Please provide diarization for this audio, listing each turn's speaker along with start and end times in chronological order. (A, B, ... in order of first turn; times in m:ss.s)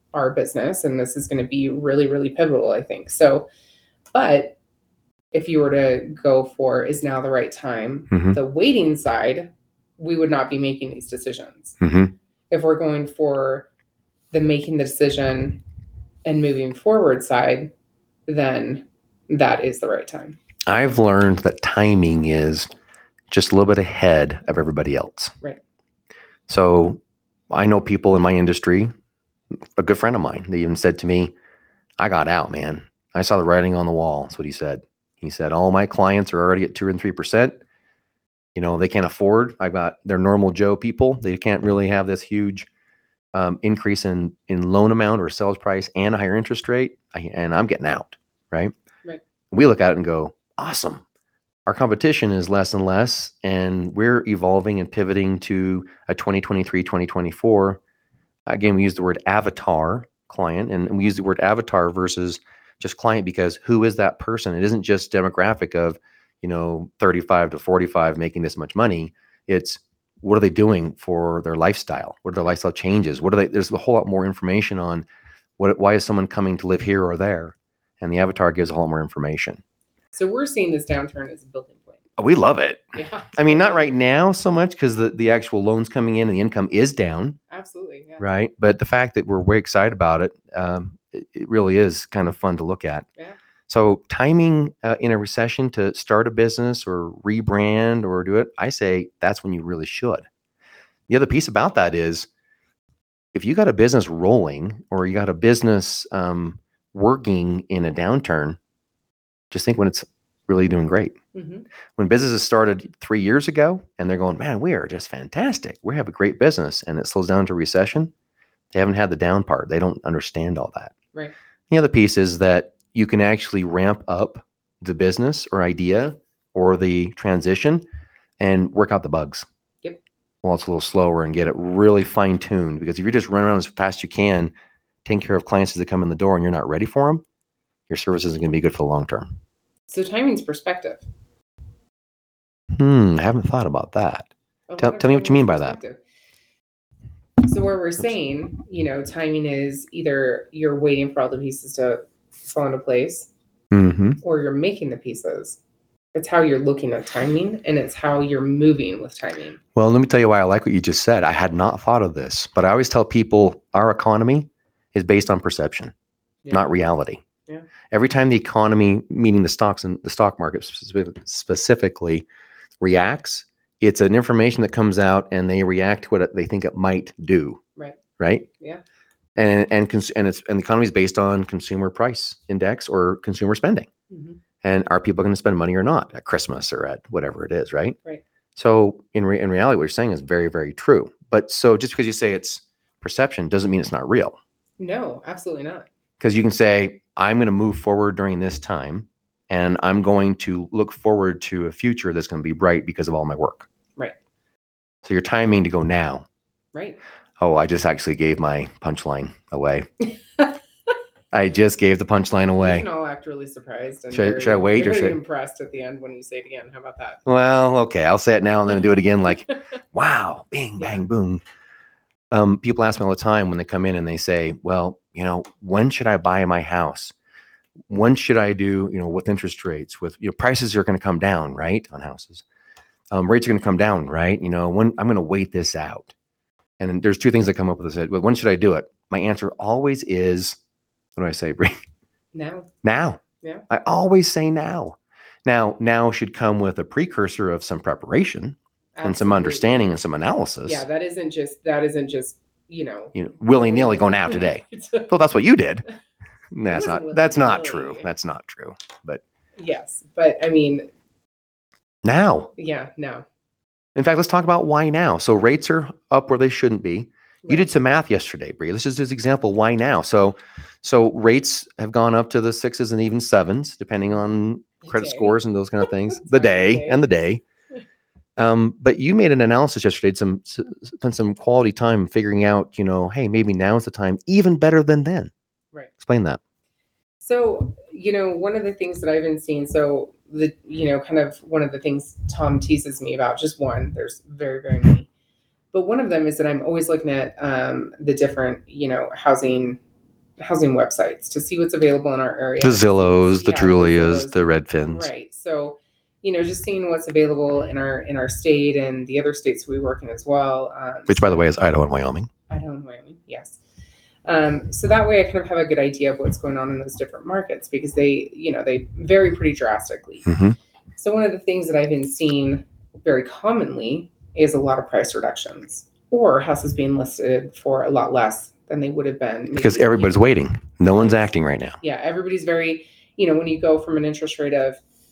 0:00.1-0:03.5 A
0:04.1-0:04.6 A
0:05.3-0:11.8 A
0:08.1-0:08.4 B
0:11.8-0:12.1 B
0:12.5-0:13.7 A
0:14.3-0:15.6 A
0:16.2-0:17.7 A
0:18.3-0:20.4 A
0:20.7-0:22.7 B
0:23.3-0:25.3 B
0:26.5-0:27.0 B
0:27.5-0:28.9 B
0:29.8-0:31.3 B
0:32.0-0:37.6 B
0:38.5-0:42.7 B
0:43.3-0:48.7 B
0:49.5-0:51.0 B
0:51.6-0:57.8 B
0:58.5-1:15.0 B
1:15.6-1:19.6 B
1:20.1-1:22.0 A
1:22.2-1:27.4 B
1:22.9-1:23.9 A
1:27.5-1:28.2 A
1:28.2-1:33.0 B
1:33.7-1:40.2 B
1:41.1-1:42.3 B
1:43.3-1:48.6 B
1:49.5-1:51.1 B
1:51.3-1:51.6 A
1:52.0-1:58.1 B
1:58.7-2:00.9 B
2:01.7-2:07.8 B
2:08.4-2:09.4 B
2:10.4-2:14.5 B
2:15.0-2:17.2 B
2:17.9-2:19.3 B
2:19.9-2:21.0 A
2:22.7-2:25.8 B
2:24.7-2:26.0 A
2:27.4-2:33.3 A
2:33.7-2:34.2 B
2:34.2-2:35.6 A
2:36.1-2:39.6 A
2:39.8-2:45.9 B
2:46.4-2:46.7 A
2:46.5-2:47.2 B
2:47.9-2:52.2 B
2:52.8-2:57.6 B
2:58.2-2:58.5 B
2:59.4-3:03.9 B
3:04.1-3:04.4 A
3:04.6-3:08.0 B
3:08.6-3:14.4 B
3:14.8-3:15.9 A
3:16.2-3:23.7 B
3:25.0-3:26.2 B
3:26.7-3:27.0 A
3:27.4-3:29.9 B
3:31.3-3:32.9 B
3:32.6-3:37.2 A
3:34.1-3:35.2 B
3:37.2-3:41.4 B
3:40.8-3:41.0 A
3:42.3-3:47.1 B
3:47.9-3:52.4 B
3:53.1-3:56.1 B
3:56.8-4:00.6 B
4:01.2-4:01.8 B
4:02.3-4:02.7 A
4:02.8-4:10.8 B
4:08.9-4:09.9 A
4:10.6-4:15.1 A
4:13.1-4:15.8 B
4:16.5-4:19.2 B
4:16.7-4:18.1 A
4:19.6-4:20.9 A
4:22.0-4:22.5 B
4:22.6-4:23.2 A
4:24.0-4:37.4 B
4:34.8-4:37.0 A
4:38.4-4:45.3 B
4:46.0-4:46.4 B
4:47.2-4:55.1 A
4:55.7-4:59.8 A
5:00.4-5:04.3 A
5:02.6-5:05.1 B
5:04.9-5:11.3 A
5:11.1-5:12.3 B
5:12.5-5:13.6 A
5:14.2-5:20.3 A
5:20.2-5:20.6 B
5:21.0-5:30.2 A
5:29.5-5:31.8 B
5:31.8-5:34.8 A